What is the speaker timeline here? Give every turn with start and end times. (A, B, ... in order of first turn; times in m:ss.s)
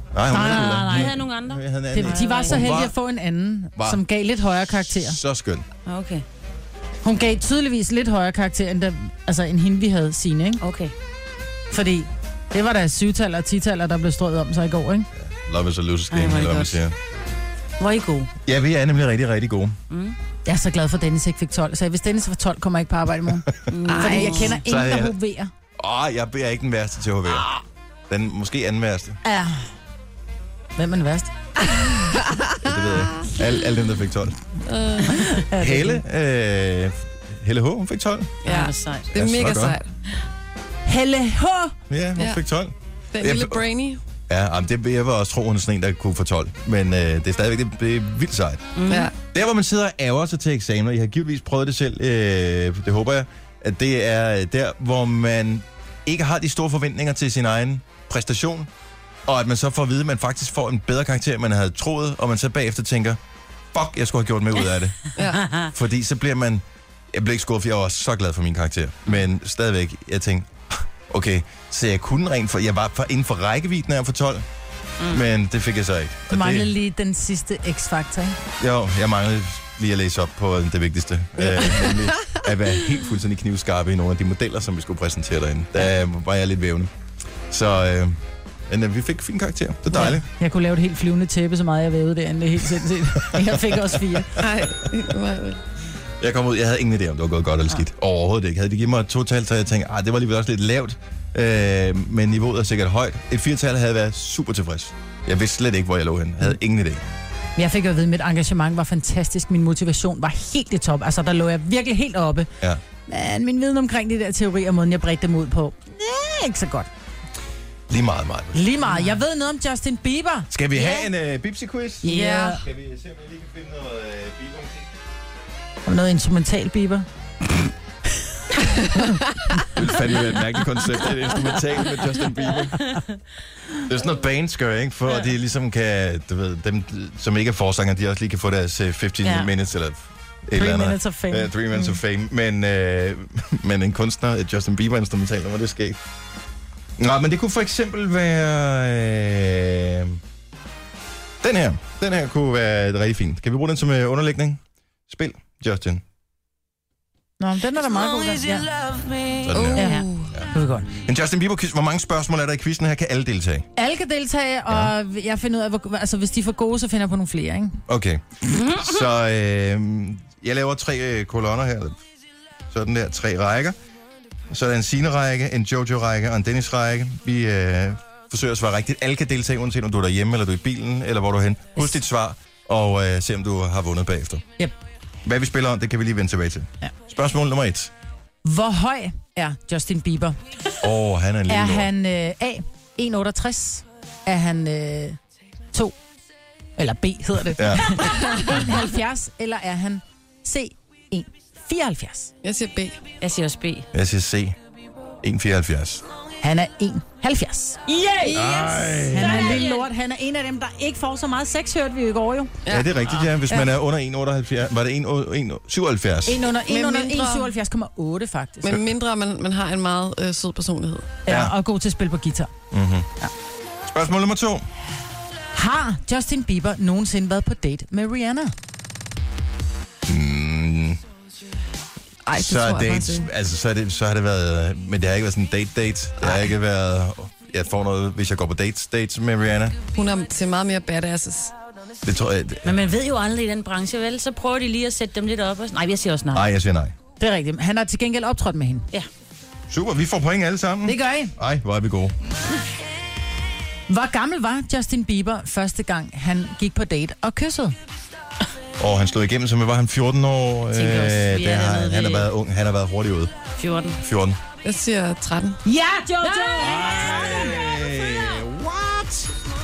0:00.1-0:02.9 A
0:00.3-0:01.0 B
0:00.3-0:02.7 C
0:01.9-0:05.2 B
0:03.8-0:04.0 A
0:04.7-0:05.7 A
0:05.9-0:06.2 C
0:07.0-0:10.6 B
0:10.6-0:10.9 C
0:11.7-0:15.1 B
0:15.2-0:17.0 A
0:16.1-0:16.8 C
0:17.8-0:18.3 C
0:18.4-0:19.8 A
0:19.9-0:20.2 C
0:20.4-0:25.5 B
0:23.7-0:24.5 C
0:23.9-0:24.6 D
0:24.5-0:25.2 A
0:25.8-0:27.5 A
0:28.1-0:29.2 A
0:29.2-0:29.7 B
0:30.8-0:31.3 B
0:31.7-0:33.3 D
0:32.6-0:34.4 A
0:34.7-0:35.4 D
0:35.1-0:36.0 B
0:35.6-0:38.4 A
0:38.4-0:39.1 C
0:38.4-0:39.9 D
0:39.1-0:39.8 A
0:40.8-0:41.8 B
0:41.9-0:43.6 A
0:43.1-0:44.0 D
0:44.3-0:48.7 A
0:48.8-0:49.1 C
0:48.9-0:49.1 D
0:49.3-0:58.7 A
0:59.3-1:03.2 A
1:03.7-1:14.5 A
1:05.2-1:05.5 D
1:05.4-1:05.7 C
1:15.1-1:16.7 A
1:16.3-1:18.4 B
1:18.6-1:26.9 A
1:21.8-1:22.4 D
1:27.5-1:30.3 A
1:29.9-1:34.4 B
1:33.3-1:34.4 A
1:34.4-1:35.6 D
1:36.2-1:47.0 A
1:47.6-1:52.5 B
1:53.1-1:56.9 B
1:57.9-1:58.9 A
1:58.5-2:01.0 B
2:00.5-2:04.9 A
2:02.0-2:02.6 B
2:02.1-2:02.6 D
2:05.9-2:07.1 B
2:09.7-2:13.0 A
2:13.9-2:26.0 A
2:19.2-2:19.5 C
2:20.5-2:22.0 B
2:27.0-2:30.2 A
2:31.4-2:36.0 A
2:37.4-2:38.7 B
2:39.4-2:43.7 A
2:39.5-2:40.3 D
2:39.8-2:40.9 B
2:43.8-2:47.8 B
2:47.9-2:52.0 A
2:48.5-2:48.8 C
2:52.7-2:53.8 A
2:54.5-3:04.4 A
3:05.2-3:07.9 A
3:08.4-3:10.4 B
3:10.8-3:11.9 A
3:11.5-3:15.2 B
3:16.8-3:22.3 B
3:17.6-3:18.2 A
3:22.4-3:23.0 D
3:23.2-3:23.9 C
3:23.9-3:24.6 A
3:25.2-3:26.0 A
3:26.4-3:27.8 B
3:27.9-3:29.9 C
3:28.3-3:28.7 D
3:28.3-3:29.7 A
3:29.1-3:32.5 B
3:32.6-3:32.9 D
3:32.7-3:36.4 A
3:36.3-3:38.8 B
3:36.6-3:37.6 D
3:38.6-3:41.2 D
3:41.3-3:42.5 B
3:41.3-3:41.6 A
3:42.7-3:43.1 A
3:43.9-3:44.7 A
3:45.5-3:48.5 B
3:50.1-3:51.0 A
3:52.3-3:53.3 D
3:52.4-3:59.8 A
3:56.2-3:56.5 D
3:59.9-4:01.5 D
4:02.0-4:02.8 A
4:02.6-4:06.5 C
4:06.3-4:06.9 A
4:07.2-4:08.8 B
4:09.7-4:12.2 A
4:10.8-4:11.3 B
4:13.9-4:17.7 B
4:18.8-4:23.4 A
4:20.7-4:22.3 C
4:23.6-4:24.0 C
4:24.0-4:24.4 A
4:24.6-4:25.6 D
4:25.6-4:27.3 B
4:26.2-4:27.6 C
4:26.6-4:29.3 A